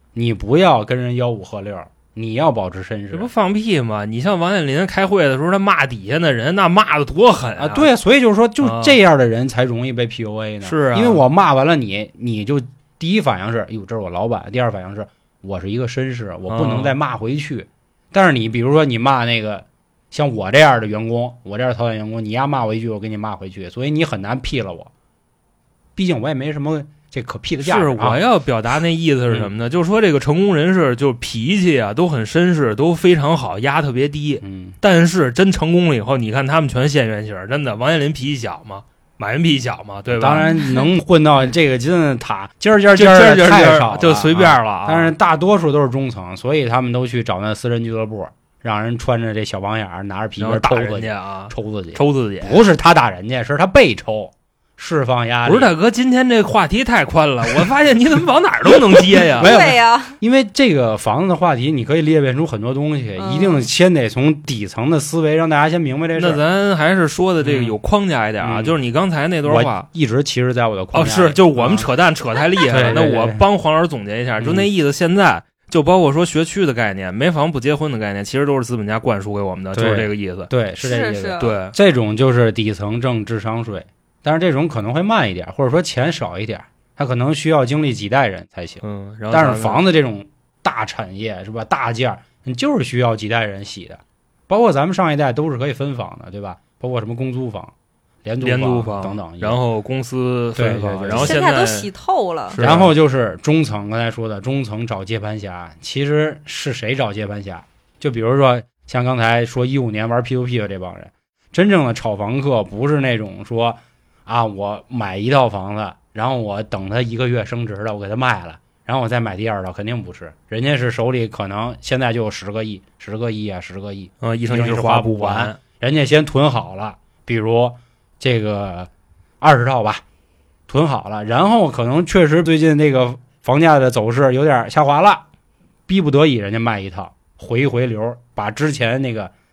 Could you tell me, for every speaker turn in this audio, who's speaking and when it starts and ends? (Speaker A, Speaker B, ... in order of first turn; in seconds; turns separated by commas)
Speaker A: 0.1-3.3, Speaker B: 3.1-7.9, Speaker A: 7.6-24.9, Speaker B: 8.6-8.9, Speaker B: 10.6-11.2, Speaker B: 16.5-16.9, Speaker A: 25.9-28.2, Speaker B: 27.6-40.5, Speaker A: 34.4-34.8, Speaker A: 40.1-55.7, Speaker C: 40.4-40.9, Speaker B: 42.9-45.1, Speaker B: 50.4-52.6, Speaker B: 55.4-59.5, Speaker A: 59.4-66.4, Speaker C: 59.4-60.2, Speaker C: 63.2-63.7, Speaker B: 66.1-69.9, Speaker A: 67.4-67.8, Speaker A: 68.4-68.8, Speaker A: 69.4-71.9, Speaker B: 70.9-80.5, Speaker A: 72.7-73.4, Speaker A: 74.4-74.7, Speaker A: 79.7-97.7, Speaker C: 80.8-81.5, Speaker B: 81.4-81.7, Speaker B: 88.8-89.8, Speaker A: 98.2-99.6, Speaker B: 98.4-101.9, Speaker A: 100.5-101.4, Speaker C: 101.2-102.6, Speaker B: 102.5-102.9, Speaker A: 102.6-128.9, Speaker B: 124.2-125.6, Speaker A: 129.4-130.0, Speaker A: 130.7-135.2, Speaker A: 135.9-139.3